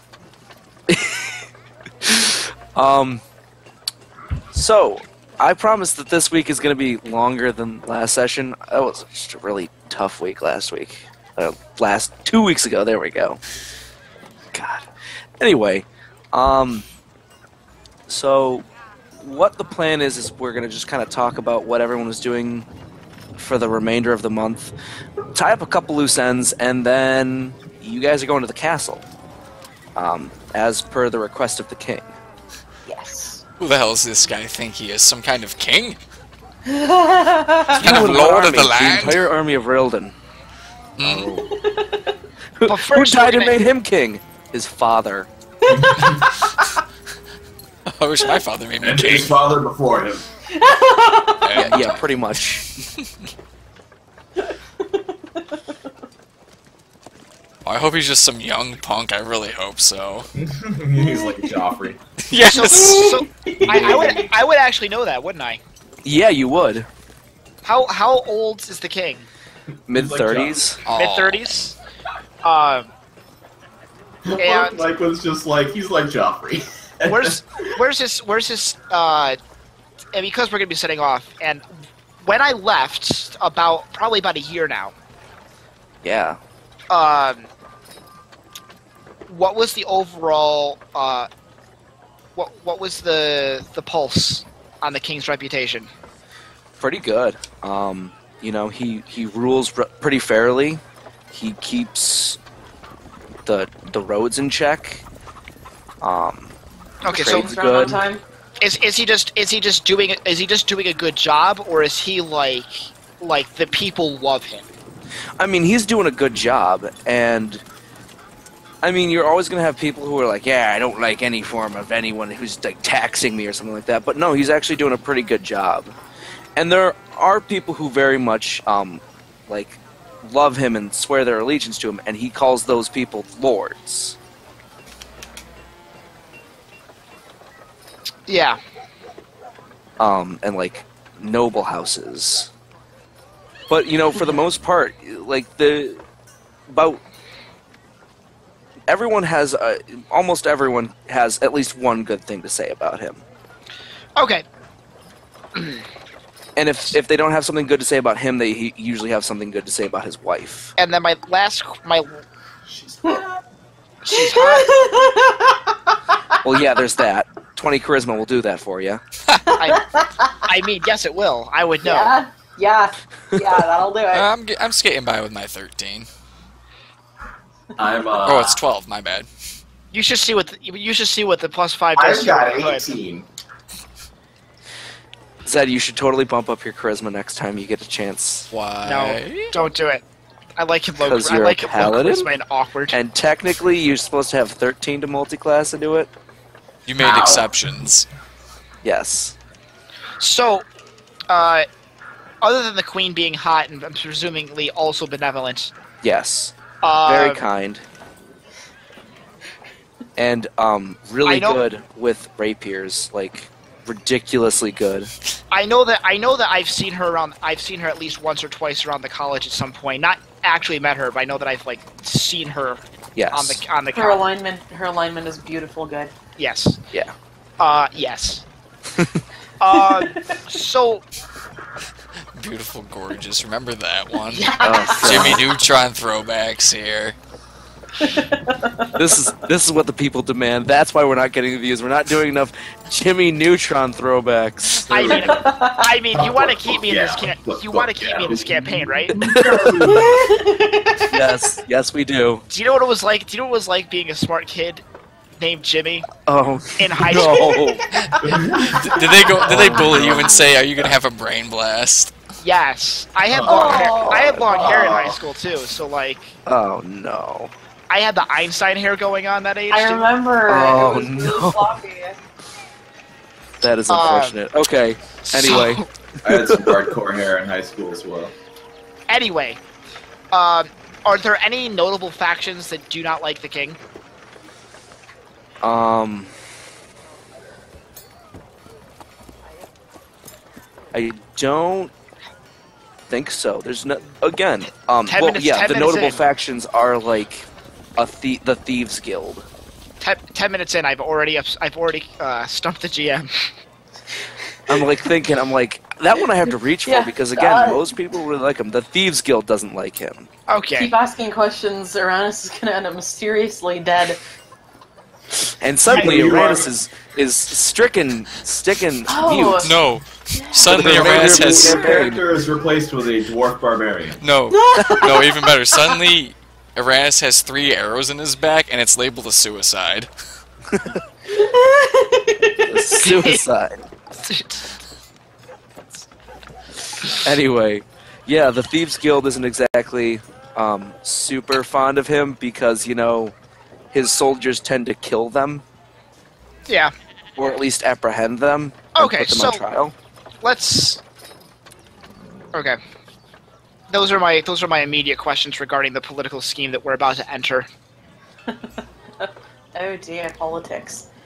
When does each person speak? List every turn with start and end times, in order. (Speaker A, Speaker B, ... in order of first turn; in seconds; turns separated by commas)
Speaker A: 0.9-1.4, Speaker A: 2.0-3.2, Speaker A: 4.5-13.4, Speaker A: 14.5-14.9, Speaker A: 15.4-16.9, Speaker A: 18.1-22.7, Speaker A: 23.4-24.7, Speaker A: 25.3-29.0, Speaker A: 29.9-32.1, Speaker B: 32.9-33.4, Speaker C: 33.6-36.0, Speaker B: 36.6-37.9, Speaker C: 37.7-39.2, Speaker A: 37.8-40.1, Speaker C: 41.0-41.3, Speaker D: 41.0-41.5, Speaker B: 41.4-42.1, Speaker A: 42.6-45.3, Speaker E: 42.6-43.6, Speaker D: 45.7-46.2, Speaker B: 45.7-46.7, Speaker C: 47.9-49.5, Speaker D: 48.8-50.2, Speaker B: 50.5-51.7, Speaker C: 51.4-52.0, Speaker A: 51.5-52.7, Speaker C: 52.8-53.0, Speaker B: 54.9-55.6, Speaker C: 57.6-60.3, Speaker D: 60.3-62.0, Speaker B: 61.0-61.5, Speaker C: 62.2-63.2, Speaker E: 62.4-65.6, Speaker B: 62.8-64.3, Speaker A: 66.0-66.9, Speaker E: 67.6-69.3, Speaker A: 69.9-70.8, Speaker D: 69.9-70.7, Speaker C: 70.8-71.4, Speaker E: 70.9-71.7, Speaker E: 72.4-72.9, Speaker D: 74.2-77.4, Speaker E: 74.4-74.8, Speaker E: 77.1-79.4, Speaker E: 80.1-81.6, Speaker E: 82.2-84.9, Speaker A: 86.0-86.4, Speaker E: 86.9-87.5, Speaker E: 89.3-91.3, Speaker E: 92.3-95.9, Speaker A: 96.8-102.4, Speaker A: 103.5-105.0, Speaker A: 106.0-106.6, Speaker E: 107.0-107.5, Speaker A: 107.1-108.0, Speaker B: 107.1-108.2, Speaker E: 108.6-114.7, Speaker A: 115.4-117.6, Speaker A: 118.8-126.0, Speaker A: 126.5-134.2, Speaker E: 138.3-138.6, Speaker A: 140.0-142.5, Speaker A: 143.7-146.0, Speaker A: 146.7-147.0, Speaker A: 148.9-153.2, Speaker E: 154.2-154.4, Speaker E: 155.5-155.8, Speaker A: 156.6-160.7, Speaker E: 160.8-162.2, Speaker D: 162.7-163.2, Speaker E: 164.0-164.7, Speaker B: 164.1-166.6, Speaker A: 166.4-169.0, Speaker B: 169.5-170.5, Speaker E: 169.6-169.8, Speaker E: 170.4-172.1, Speaker B: 171.8-174.2, Speaker C: 174.1-176.1, Speaker D: 177.8-178.6, Speaker C: 178.2-179.3, Speaker E: 179.9-182.9, Speaker D: 181.9-183.2, Speaker A: 185.4-188.5, Speaker C: 188.5-189.6, Speaker E: 188.8-190.0, Speaker E: 190.6-192.9, Speaker A: 191.0-192.3, Speaker A: 192.9-196.1, Speaker C: 196.8-198.1, Speaker D: 197.0-197.5, Speaker A: 198.8-199.3, Speaker E: 200.2-200.7, Speaker E: 201.3-201.7, Speaker E: 202.4-205.7, Speaker A: 206.0-207.8, Speaker E: 206.8-207.4, Speaker A: 210.2-215.1, Speaker E: 211.2-211.6, Speaker E: 215.5-222.8, Speaker A: 223.1-223.6, Speaker E: 223.3-224.2, Speaker B: 223.9-226.1, Speaker E: 226.4-226.8, Speaker E: 227.6-228.4, Speaker A: 228.9-229.2, Speaker E: 229.6-231.0, Speaker B: 229.7-230.4, Speaker C: 232.3-237.2, Speaker E: 234.3-235.0, Speaker B: 234.4-235.4, Speaker A: 234.6-235.4, Speaker B: 238.0-238.9, Speaker A: 238.9-245.2, Speaker E: 244.9-249.1, Speaker D: 244.9-245.4, Speaker B: 245.1-245.9, Speaker D: 246.1-250.3, Speaker A: 249.2-250.0, Speaker B: 249.8-251.3, Speaker A: 251.0-252.4, Speaker E: 252.5-254.8, Speaker E: 255.4-256.1, Speaker A: 256.2-257.8, Speaker E: 256.8-257.6, Speaker B: 257.2-258.6, Speaker C: 257.9-262.1, Speaker D: 258.2-260.4, Speaker A: 259.4-260.0, Speaker E: 262.4-266.3, Speaker D: 263.3-263.7, Speaker B: 263.4-264.7, Speaker A: 264.0-264.8, Speaker D: 264.5-265.2, Speaker A: 266.4-267.5, Speaker E: 267.9-270.1, Speaker B: 269.7-272.2, Speaker A: 270.5-271.7, Speaker A: 273.6-276.7, Speaker E: 273.9-274.4, Speaker E: 275.3-275.9, Speaker D: 276.2-278.3, Speaker E: 279.1-279.6, Speaker E: 280.3-283.8, Speaker A: 285.6-286.3, Speaker A: 290.9-291.9, Speaker A: 293.1-299.4, Speaker E: 295.1-296.2, Speaker E: 300.0-303.5, Speaker A: 304.7-310.3, Speaker B: 306.8-307.9, Speaker E: 310.5-310.9, Speaker B: 310.8-314.2, Speaker A: 315.6-319.7, Speaker D: 315.9-316.7, Speaker B: 319.1-319.8, Speaker C: 319.6-321.8, Speaker B: 320.3-320.8, Speaker A: 320.7-322.2, Speaker D: 320.8-324.2, Speaker C: 324.2-330.1, Speaker B: 324.5-326.0, Speaker A: 324.8-325.0, Speaker A: 330.7-331.0, Speaker B: 331.3-333.0, Speaker A: 332.6-333.9, Speaker E: 333.0-333.4, Speaker E: 334.2-334.6, Speaker A: 337.1-343.3, Speaker A: 343.9-345.6, Speaker E: 346.7-346.9, Speaker A: 347.4-349.9, Speaker E: 348.9-349.6, Speaker E: 350.4-351.0, Speaker E: 353.9-357.7, Speaker B: 358.5-361.1